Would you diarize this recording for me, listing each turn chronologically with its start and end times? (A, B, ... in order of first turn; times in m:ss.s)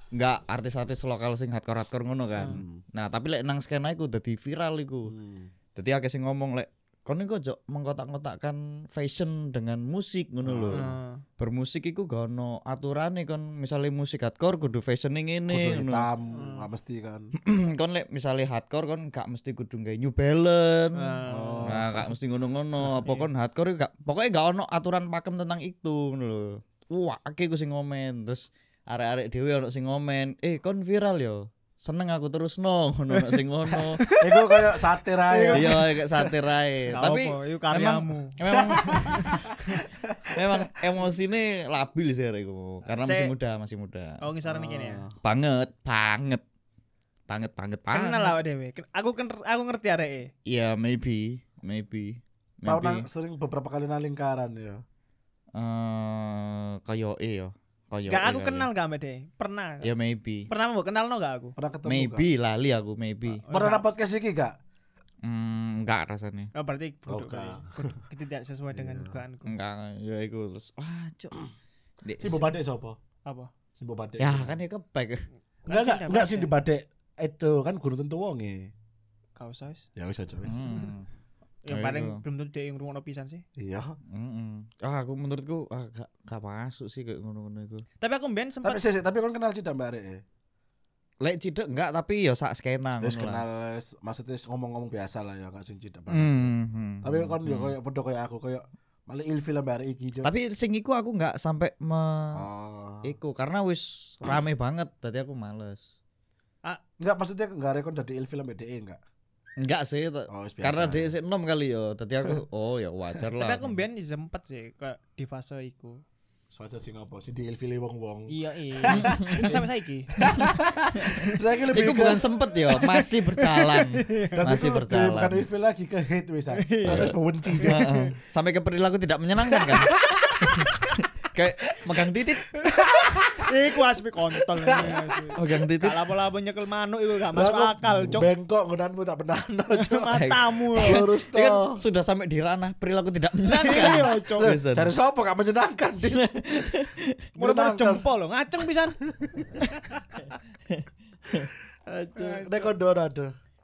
0:00.1-0:05.1 A
0:02.4-0:02.6 B
0:02.5-0:02.8 C
0:05.1-0:05.5 C
0:05.8-0:10.8 A
0:10.4-0:10.9 C
0:10.7-0:11.2 B
0:11.4-0:16.1 A
0:15.5-0:17.3 C
0:16.3-0:16.7 B
0:17.4-0:34.0 A
0:20.9-0:21.8 B
0:21.3-0:22.1 C
0:23.0-0:23.3 B
0:33.1-0:36.3 B
0:34.1-0:35.8 C
0:35.5-0:39.6 A
0:36.9-0:39.8 B
0:38.5-0:40.4 C
0:40.3-0:44.2 A
0:43.0-0:43.3 B
0:44.2-0:45.0 B
0:44.5-0:45.2 C
0:45.2-0:46.4 A
0:47.3-0:48.4 A
0:47.9-0:50.3 B
0:50.5-0:53.1 A
0:52.7-0:54.8 C
0:55.6-0:58.7 A
0:58.1-0:59.9 B
0:59.8-1:00.5 A
1:00.5-1:01.6 B
1:01.6-1:02.3 C
1:01.8-1:03.4 A
1:03.4-1:03.9 B
1:03.5-1:04.6 C
1:05.2-1:06.5 A
1:06.5-1:09.6 B
1:07.1-1:08.0 C
1:08.7-1:09.2 C
1:09.4-1:11.4 A
1:12.0-1:12.5 A
1:12.2-1:13.0 C
1:13.8-1:14.6 C
1:14.2-1:15.2 A
1:15.7-1:16.5 B
1:15.7-1:18.7 C
1:19.4-1:19.9 B
1:20.0-1:20.7 C
1:20.5-1:21.1 A
1:21.6-1:23.4 B
1:21.7-1:22.2 A
1:23.6-1:24.0 C
1:24.1-1:27.8 A
1:28.0-1:28.8 B
1:28.6-1:30.2 C
1:31.2-1:33.4 A
1:33.0-1:40.3 C
1:36.1-1:37.7 A
1:40.2-1:42.4 A
1:42.4-1:43.1 C
1:43.0-1:46.0 A
1:47.0-1:49.0 C
1:49.6-1:53.8 A
1:50.3-1:51.1 C
1:53.4-1:56.0 B
1:56.5-1:59.6 C
1:58.3-2:00.1 B
1:58.9-1:59.6 A
2:00.2-2:02.2 C
2:00.2-2:05.5 A
2:02.7-2:04.5 B
2:04.3-2:07.8 C
2:06.6-2:08.1 B
2:06.9-2:12.5 A
2:09.5-2:10.7 C
2:12.6-2:18.3 B
2:12.6-2:13.5 C
2:14.4-2:15.2 C
2:15.4-2:16.0 A
2:17.3-2:20.2 C
2:19.8-2:21.0 B
2:20.1-2:24.9 A
2:20.7-2:21.8 C
2:23.5-2:24.5 B
2:23.7-2:26.3 C
2:26.0-2:27.2 A
2:27.4-2:28.1 C
2:27.4-2:29.8 B
2:29.1-2:30.2 C
2:30.7-2:31.5 A
2:31.9-2:33.3 C
2:32.2-2:32.7 B